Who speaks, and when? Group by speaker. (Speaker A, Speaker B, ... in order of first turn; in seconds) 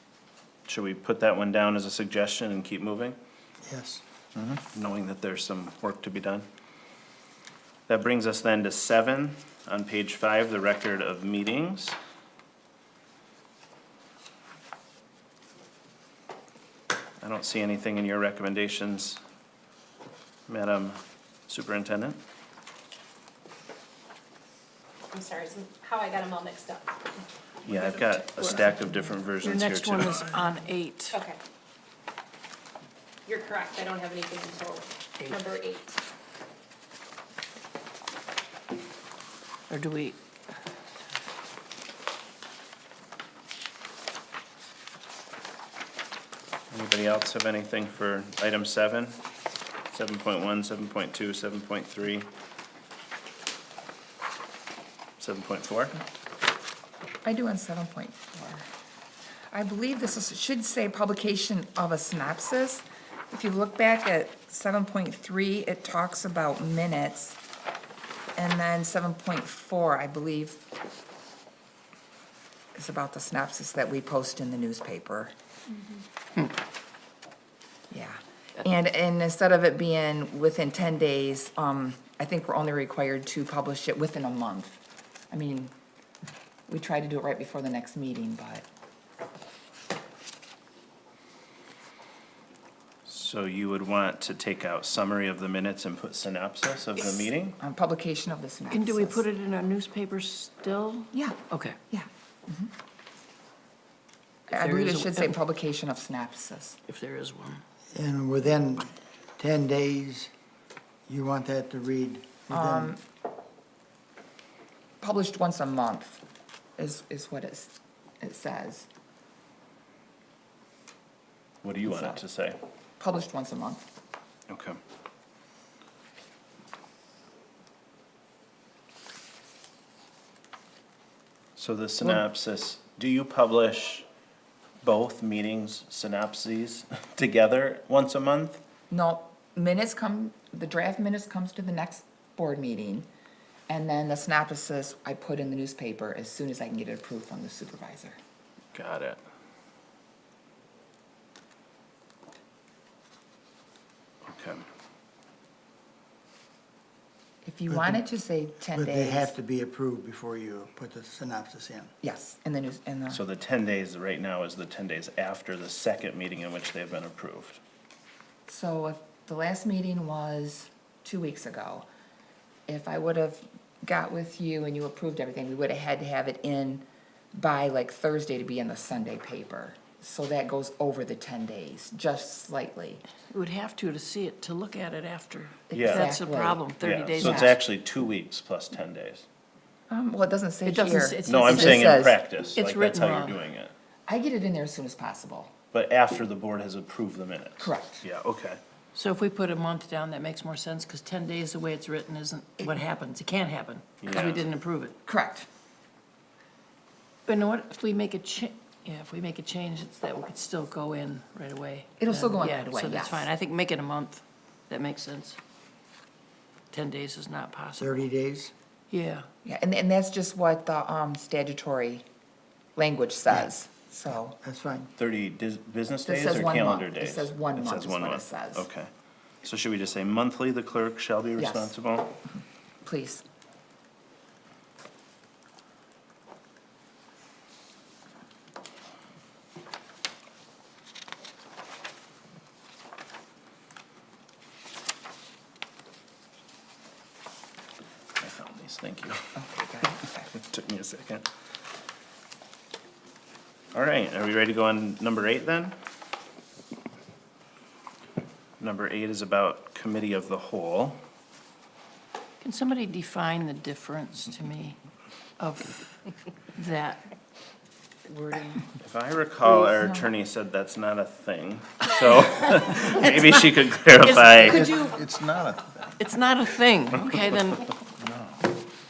Speaker A: 0.7-3.2, 4.4-6.5, 7.9-12.0, 17.2-19.2, 20.5-22.2, 27.7-30.4, 46.7-49.2, 49.9-52.3, 55.2-56.0, 93.1-97.6, 121.6-122.6, 124.5-124.8, 131.6-134.1, 134.8-138.6, 148.7-149.2, 154.3-154.6, 163.1-167.6, 185.7-186.1, 186.8-189.2, 191.2-193.7, 195.7-198.6, 204.0-204.5, 225.0-228.9, 229.4-232.1, 248.2-249.2, 250.3-251.3, 253.7-255.8, 258.6-261.0, 268.8-274.7
Speaker B: 3.6-4.0, 107.9-110.3, 111.1-113.0, 157.7-158.1, 158.7-161.9, 217.8-218.5, 224.4-224.9, 274.4-275.9
Speaker C: 25.1-27.0, 27.7-28.8, 31.1-31.4, 33.3-36.0
Speaker D: 29.4-31.2, 39.7-40.2, 98.7-101.8, 104.5-105.4, 106.9-107.6, 183.3-187.6, 190.7-193.4, 198.9-204.9, 207.3-215.4, 216.7-218.0, 218.9-219.3, 262.4-264.8, 265.4-267.1, 274.0-275.0, 276.0-277.7
Speaker E: 57.2-58.7, 59.5-67.4, 68.4-70.6, 72.8-75.3, 77.9-84.8, 85.3-85.7, 86.7-88.7, 97.6-99.3, 101.1-102.7, 104.5-106.8, 112.5-113.0, 115.0-116.2, 116.8-118.9, 123.0-123.8, 138.9-143.1, 143.7-148.2, 157.4-159.3, 162.0-163.2, 168.5-171.9, 172.7-183.0, 185.7-186.7, 189.9-192.2, 194.1-195.5, 197.6-198.1, 205.1-205.5, 212.0-213.3, 219.4-222.1, 222.8-224.4, 226.1-228.7, 231.4-231.7, 232.8-233.2, 249.3-250.3, 268.1-268.6